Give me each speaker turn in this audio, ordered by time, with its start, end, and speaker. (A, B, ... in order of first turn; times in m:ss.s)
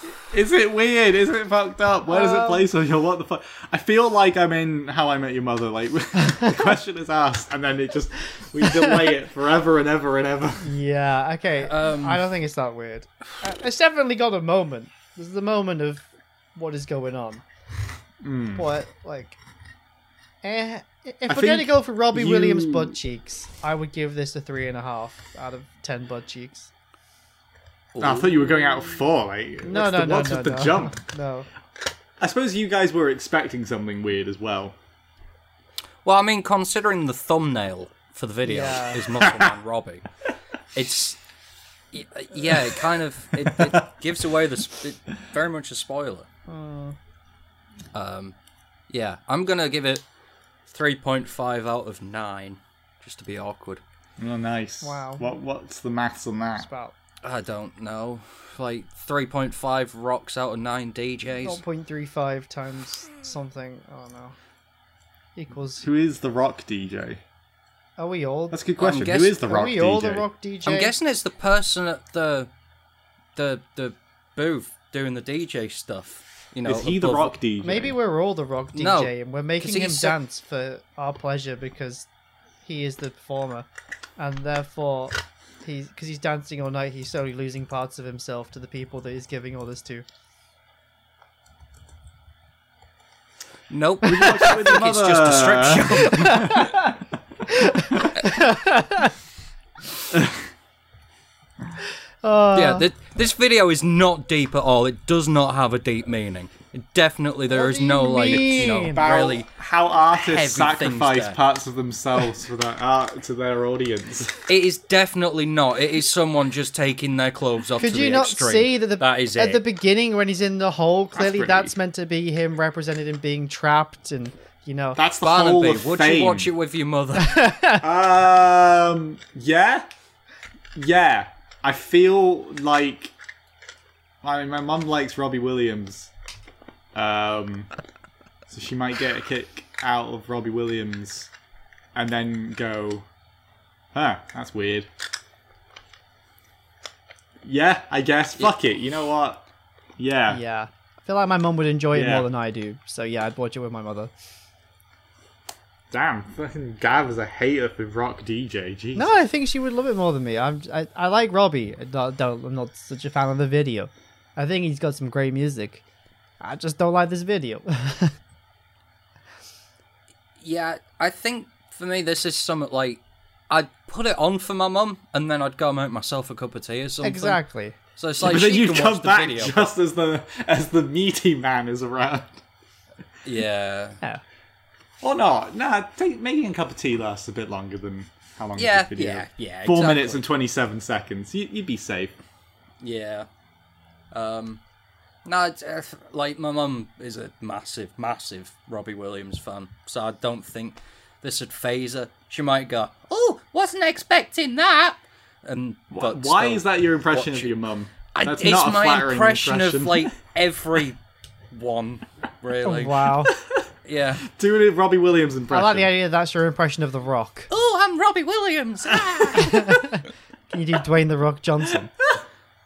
0:00.2-0:10.7 A
0:02.1-0:02.7 B
0:06.2-0:06.6 B
0:08.6-0:09.1 B
0:10.6-0:17.4 B
0:11.6-0:12.2 C
0:18.2-0:18.7 A
0:18.5-0:19.4 B
0:20.4-0:26.7 B
0:21.3-0:23.0 A
0:27.9-0:28.3 C
0:28.0-0:31.0 A
0:29.6-0:31.5 B
0:32.2-0:34.8 A
0:36.0-0:40.0 C
0:38.4-0:39.0 B
0:39.2-0:39.5 A
0:40.7-0:41.2 C
0:41.9-0:46.3 C
0:42.5-0:42.8 A
0:43.4-0:43.8 A
0:46.5-0:47.0 B
0:47.9-0:48.3 C
0:48.9-0:50.0 C
0:50.7-0:53.8 C
0:54.2-0:56.7 A
0:54.8-0:55.3 B
0:56.6-0:56.9 B
0:57.2-1:01.6 C
1:01.4-1:04.3 B
1:05.4-1:05.8 B
1:05.8-1:07.2 A
1:08.0-1:08.6 B
1:08.5-1:10.2 A
1:08.8-1:09.4 C
1:09.4-1:10.9 B
1:10.6-1:12.5 C
1:13.4-1:17.3 C
1:16.6-1:17.9 A
1:17.6-1:22.1 B
1:18.8-1:20.2 C
1:22.6-1:23.7 B
1:24.2-1:30.0 B
1:33.7-1:36.6 C
1:34.0-1:36.8 A
1:36.2-1:36.9 B
1:37.4-1:39.1 B
1:40.1-1:40.4 A
1:42.2-1:42.8 B
1:42.5-1:49.5 C
1:47.5-1:49.1 B
1:48.9-1:54.4 A
1:50.1-1:51.4 C
1:54.5-1:59.6 C
1:57.8-2:05.0 B
2:01.2-2:01.7 A
2:05.0-2:06.5 A
2:05.2-2:07.6 C
2:07.2-2:07.8 B
2:07.8-2:09.9 A
2:10.7-2:13.1 A
2:14.2-2:16.1 A
2:16.9-2:17.7 A
2:18.5-2:21.3 A
2:21.9-2:23.0 A
2:23.9-2:24.9 A
2:27.4-2:29.4 A
2:30.0-2:30.4 A
2:30.3-2:34.1 B
2:31.9-2:32.3 A
2:35.9-2:39.1 A
2:38.9-2:45.8 B
2:46.4-2:48.1 B
2:50.4-2:57.4 C
2:57.0-2:57.8 B
2:58.0-2:59.7 C
2:58.2-3:02.4 A
3:03.2-3:04.0 C
3:05.0-3:12.2 A
3:08.6-3:10.2 C
3:12.8-3:13.3 C
3:14.1-3:14.6 C
3:15.2-3:27.5 C
3:25.9-3:30.1 A
3:28.1-3:31.0 C
3:31.5-3:33.1 C
3:32.6-3:33.3 B
3:33.4-3:33.6 A
3:33.8-3:34.2 C
3:34.2-3:35.9 A
3:35.5-3:37.5 B
3:37.5-3:40.0 C
3:39.3-3:41.9 B